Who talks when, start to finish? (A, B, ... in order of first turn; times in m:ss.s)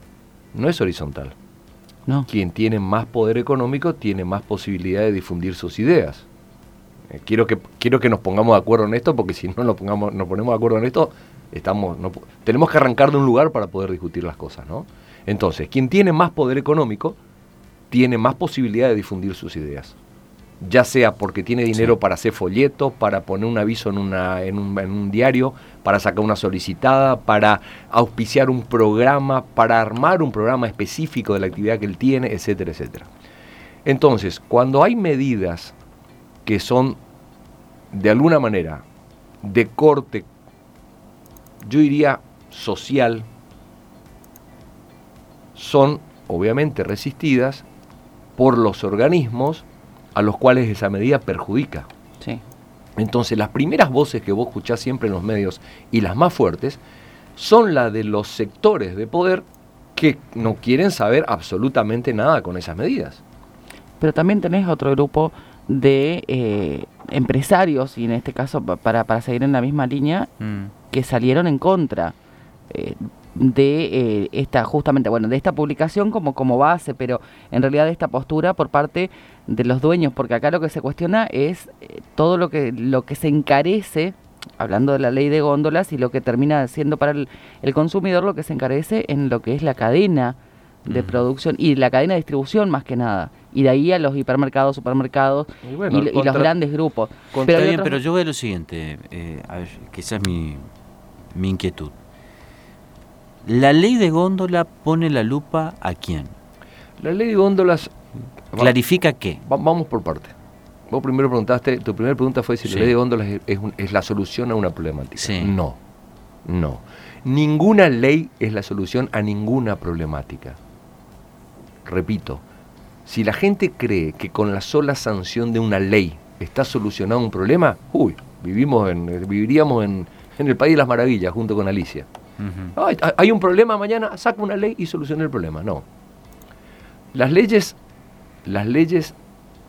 0:00.5-0:01.4 A
0:02.3-0:06.3 A
0:07.1-0:17.2 A
0:17.9-0:20.0 A
0:20.6-0:33.1 A
0:33.8-0:35.7 A
0:36.4-0:37.0 A
0:37.9-0:38.8 A
0:39.4-0:40.3 A
0:41.6-0:43.3 A
0:45.6-0:47.6 A
0:48.4-0:51.9 A
0:53.0-0:56.8 A
0:57.4-1:03.2 A
1:04.0-1:10.3 B
1:10.4-1:10.7 C
1:10.8-1:12.2 B
1:12.7-1:38.0 B
1:30.9-1:31.2 C
1:35.6-1:36.5 A
1:37.5-1:40.7 C
1:41.3-1:41.9 C
1:43.4-1:46.3 C
1:47.0-1:48.7 A
1:48.6-1:49.4 C
1:49.4-1:50.3 A
1:50.9-1:55.8 A
1:52.7-1:52.9 C
1:55.2-1:55.5 C
1:56.5-2:00.6 A
2:01.8-2:02.4 A
2:03.1-2:12.1 A
2:12.4-2:12.7 C
2:12.7-2:15.8 A
2:17.1-2:17.8 A
2:18.4-2:19.2 A